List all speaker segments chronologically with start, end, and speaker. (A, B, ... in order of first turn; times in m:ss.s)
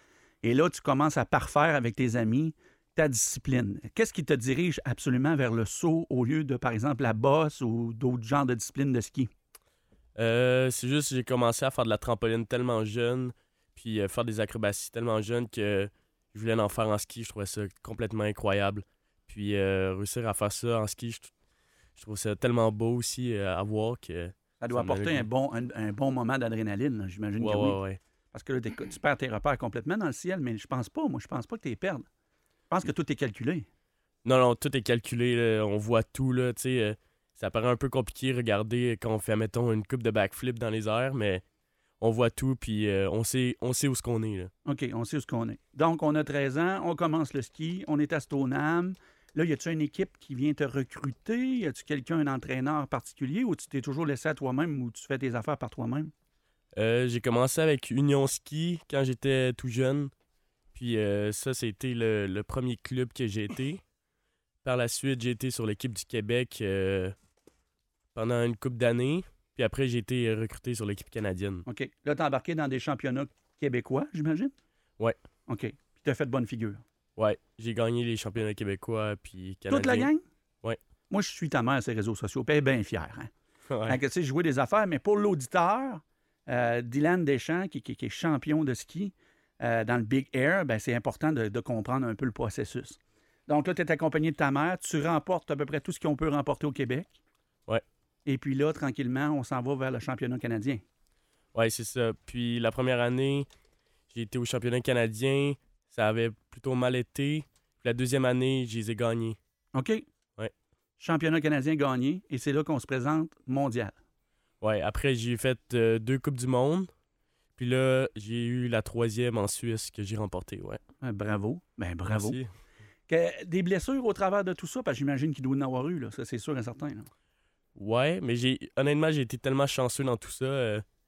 0:00.4-0:09.3 A
0:10.2-0:21.3 B
0:22.0-0:25.3 B
0:24.6-0:27.8 A
0:27.4-0:28.0 B
0:28.3-0:32.1 A
0:32.7-0:33.7 A
0:34.2-0:41.4 B
0:42.0-0:44.5 B
0:44.6-0:56.1 A
0:56.8-1:00.1 B
1:00.7-1:03.8 B
1:04.6-1:07.1 B
1:08.1-1:11.6 B
1:11.7-1:14.5 A
1:15.5-1:16.8 A
1:17.2-1:20.1 B
1:19.7-1:20.2 A
1:21.1-1:23.3 A
1:23.7-1:24.0 B
1:23.9-1:37.2 A
1:38.2-1:40.8 A
1:41.5-1:43.5 B
1:44.1-1:49.4 B
1:49.7-1:50.0 A
1:51.0-1:54.0 A
1:54.6-1:56.9 B
1:57.6-2:00.8 B
2:01.0-2:02.4 A
2:02.1-2:02.5 B
2:03.1-2:07.1 A
2:07.8-2:10.8 B